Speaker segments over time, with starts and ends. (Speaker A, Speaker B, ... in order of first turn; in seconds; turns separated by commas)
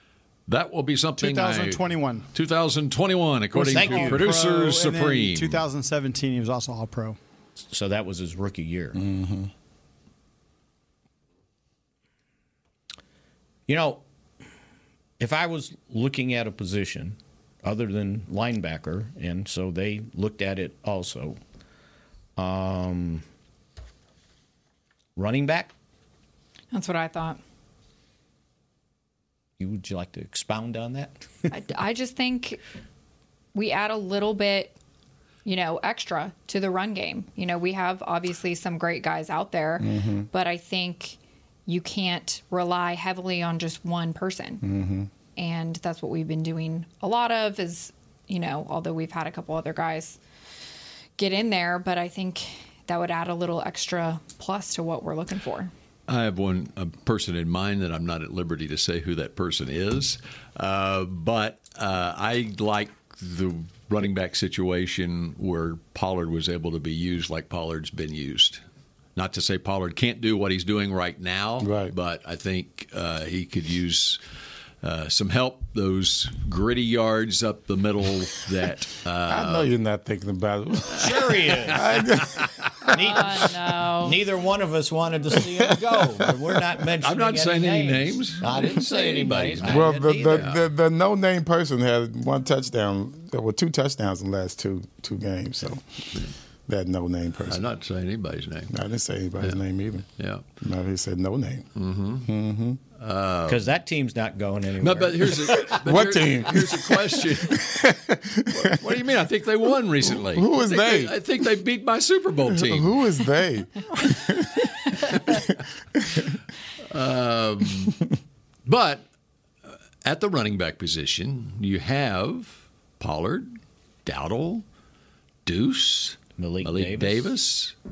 Speaker A: 0.5-5.6, Speaker B: 1.2-2.3, Speaker C: 3.5-4.3, Speaker B: 3.5-7.2, Speaker C: 7.7-9.0, Speaker D: 8.9-9.5, Speaker C: 13.7-14.0, Speaker C: 15.2-21.4, Speaker C: 22.4-23.2, Speaker C: 25.1-25.7, Speaker E: 26.7-27.4, Speaker C: 29.6-31.5, Speaker E: 31.5-32.6, Speaker E: 33.5-34.8, Speaker E: 35.4-44.6, Speaker D: 39.8-40.3, Speaker D: 44.6-45.1, Speaker E: 45.4-50.2, Speaker E: 51.2-55.7, Speaker A: 56.1-68.6, Speaker A: 69.2-74.2, Speaker D: 71.6-71.9, Speaker A: 74.8-79.7, Speaker D: 79.3-82.8, Speaker C: 80.9-81.8, Speaker A: 81.8-82.7, Speaker C: 82.9-83.3, Speaker E: 82.9-84.2, Speaker C: 84.0-90.5, Speaker A: 87.0-90.6, Speaker D: 89.6-95.8, Speaker D: 96.7-97.6, Speaker A: 97.5-98.7, Speaker D: 98.7-100.0, Speaker A: 100.2-100.4, Speaker D: 100.6-101.7, Speaker A: 101.7-102.3, Speaker D: 102.2-102.8, Speaker A: 103.0-103.7, Speaker C: 103.5-105.3, Speaker A: 104.8-107.7, Speaker D: 105.5-108.8, Speaker A: 108.5-113.0, Speaker D: 110.0-111.1, Speaker D: 112.5-116.3, Speaker A: 116.9-118.0, Speaker A: 118.7-119.0, Speaker A: 120.0-123.5, Speaker A: 124.0-124.6, Speaker A: 125.4-127.7, Speaker C: 126.4-127.3